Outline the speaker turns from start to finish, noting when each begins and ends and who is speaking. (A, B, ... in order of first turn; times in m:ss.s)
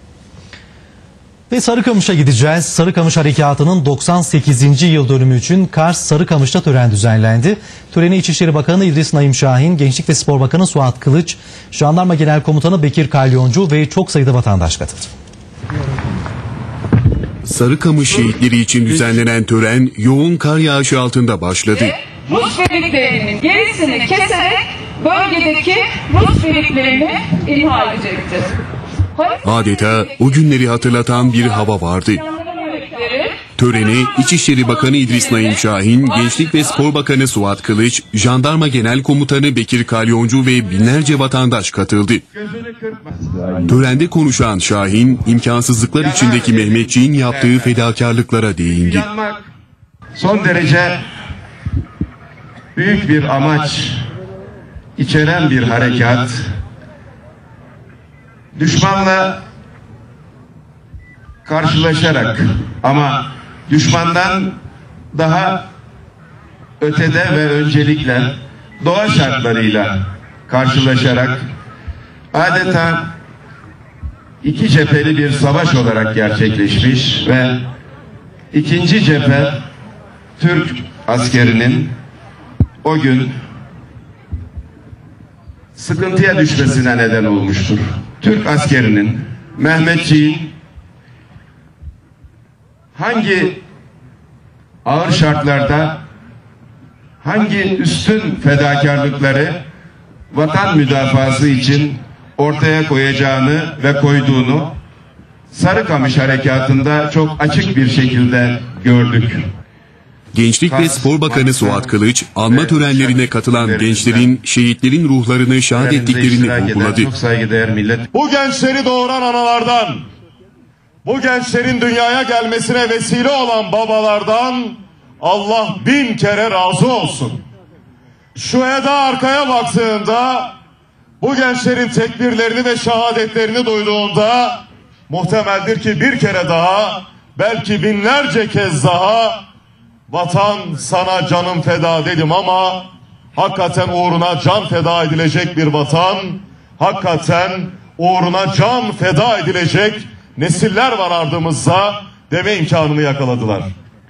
0:01.5-0:15.1 A
0:17.4-0:22.0 B
0:22.3-0:28.6 C
0:29.4-0:32.2 B
0:32.4-0:33.4 C
0:33.5-0:42.2 B
0:42.3-0:43.4 D
0:43.6-0:49.0 B
0:46.0-0:47.8 D
0:48.9-0:49.5 D
0:50.1-0:51.0 D
0:52.7-0:54.0 D
0:55.0-0:56.5 D
0:58.6-0:59.4 D
1:01.4-1:04.6 D
1:05.1-1:05.6 D
1:06.8-1:11.4 D
1:12.3-1:13.1 D
1:14.4-1:17.6 D
1:18.5-1:19.6 D
1:20.4-1:21.9 D
1:22.8-1:23.4 D
1:25.8-1:30.5 D
1:33.0-1:33.6 D
1:34.8-1:36.0 D
1:37.2-1:39.6 D
1:40.3-1:44.8 D
1:45.5-1:49.5 D
1:50.3-1:57.1 B
1:50.6-1:51.9 D
1:52.4-1:54.3 D
1:55.7-1:58.1 D
1:58.1-2:00.0 E
2:01.0-2:07.4 E
2:08.3-2:10.5 E
2:11.2-2:19.4 E
2:20.1-2:33.7 E